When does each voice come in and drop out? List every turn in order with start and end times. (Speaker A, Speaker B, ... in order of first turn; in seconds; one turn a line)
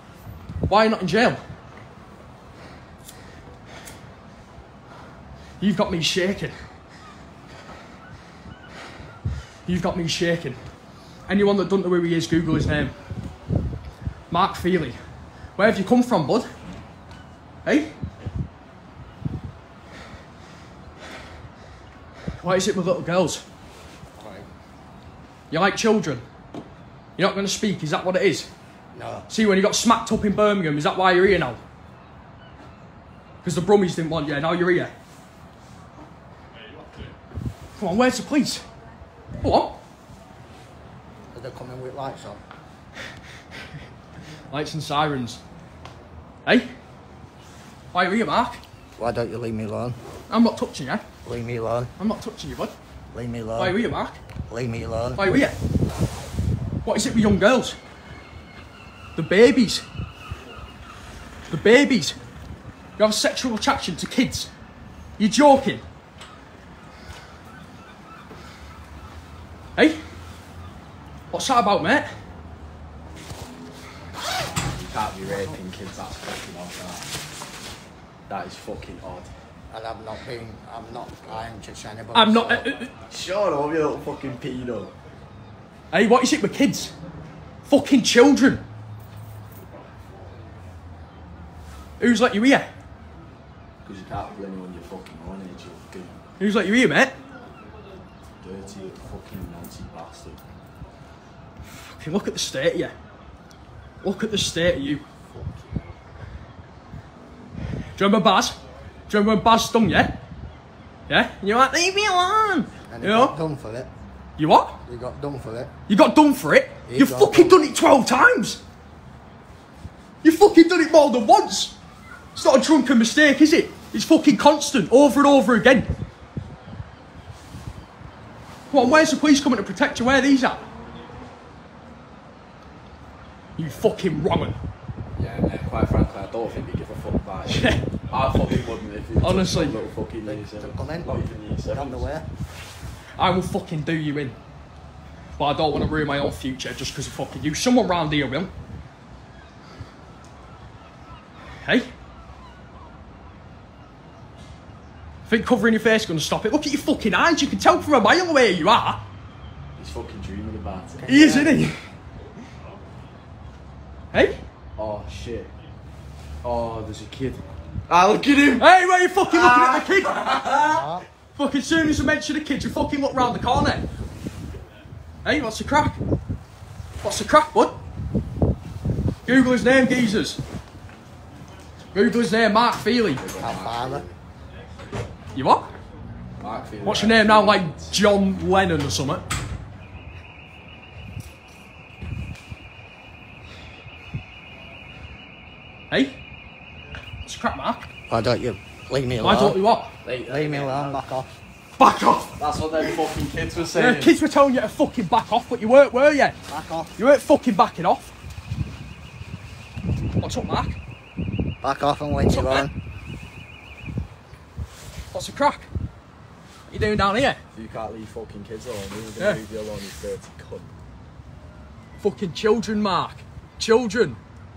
Speaker A: 0.7-1.4
Speaker A: 5.6-6.5
Speaker A: 9.7-10.6
Speaker A: 11.3-12.9
Speaker A: 14.3-15.0
Speaker A: 15.6-16.5
Speaker A: 17.6-17.9
Speaker A: 22.4-23.4
Speaker B: 24.1-24.5
Speaker A: 25.5-26.2
Speaker A: 27.2-28.5
Speaker B: 28.9-29.3
Speaker A: 29.3-31.6
Speaker A: 33.4-34.9
Speaker A: 37.8-38.6
Speaker A: 39.4-39.8
Speaker B: 41.3-42.4
Speaker A: 44.5-45.4
Speaker A: 46.5-46.7
Speaker A: 47.9-48.6
Speaker B: 49.0-50.0
Speaker A: 50.3-51.0
Speaker B: 51.2-51.9
Speaker A: 52.0-52.7
Speaker B: 53.1-53.8
Speaker A: 53.6-54.2
Speaker B: 54.5-55.2
Speaker A: 55.2-55.5
Speaker A: 56.8-57.8
Speaker A: 59.1-59.8
Speaker A: 61.5-62.2
Speaker A: 63.0-64.5
Speaker A: 65.2-65.8
Speaker A: 69.8-70.0
Speaker A: 71.3-72.1
Speaker C: 74.4-77.0
Speaker C: 78.3-79.3
Speaker B: 79.7-82.8
Speaker A: 82.1-82.9
Speaker C: 83.1-84.9
Speaker A: 85.9-86.9
Speaker A: 87.6-88.6
Speaker A: 92.0-92.7
Speaker C: 93.8-96.2
Speaker A: 96.4-97.1
Speaker C: 98.4-100.4
Speaker A: 101.9-102.9
Speaker A: 104.0-105.0
Speaker C: 105.2-105.9
Speaker A: 108.0-108.5
Speaker A: 109.1-110.2
Speaker A: 111.1-113.3
Speaker B: 112.9-113.9
Speaker A: 114.4-114.8
Speaker B: 114.8-115.7
Speaker A: 115.9-118.6
Speaker B: 116.8-117.6
Speaker A: 120.2-121.7
Speaker A: 122.3-125.9
Speaker A: 128.7-130.6
Speaker C: 128.7-129.0
Speaker A: 133.6-134.6
Speaker C: 135.2-142.1
Speaker A: 137.5-137.8
Speaker A: 139.2-139.8
Speaker B: 140.2-142.3
Speaker A: 143.2-144.3
Speaker A: 145.4-148.5
Speaker A: 151.6-151.9
Speaker A: 155.2-159.0
Speaker C: 159.8-161.1
Speaker B: 161.0-161.6
Speaker A: 161.1-161.8
Speaker A: 164.1-164.4
Speaker C: 164.8-165.5
Speaker C: 166.4-168.7
Speaker A: 168.6-170.3
Speaker C: 169.3-170.8
Speaker B: 170.6-171.0
Speaker A: 171.3-173.8
Speaker A: 175.2-176.0
Speaker A: 177.0-177.8
Speaker A: 179.2-180.4
Speaker A: 181.9-183.2
Speaker C: 183.2-184.2
Speaker B: 183.4-184.1
Speaker A: 185.3-185.7
Speaker C: 186.4-187.9
Speaker A: 186.8-189.2
Speaker A: 195.9-196.2
Speaker A: 197.2-197.8
Speaker B: 198.1-199.6
Speaker A: 199.2-199.9
Speaker C: 200.0-201.0
Speaker B: 200.2-201.3
Speaker A: 201.8-202.8
Speaker C: 202.4-204.1
Speaker A: 203.7-206.3
Speaker B: 206.5-206.9
Speaker A: 207.0-208.1
Speaker A: 210.2-210.8
Speaker B: 211.6-212.7
Speaker A: 212.3-212.7
Speaker A: 215.1-215.7
Speaker A: 216.7-217.4
Speaker C: 217.5-220.7
Speaker A: 219.2-219.4
Speaker A: 222.0-224.2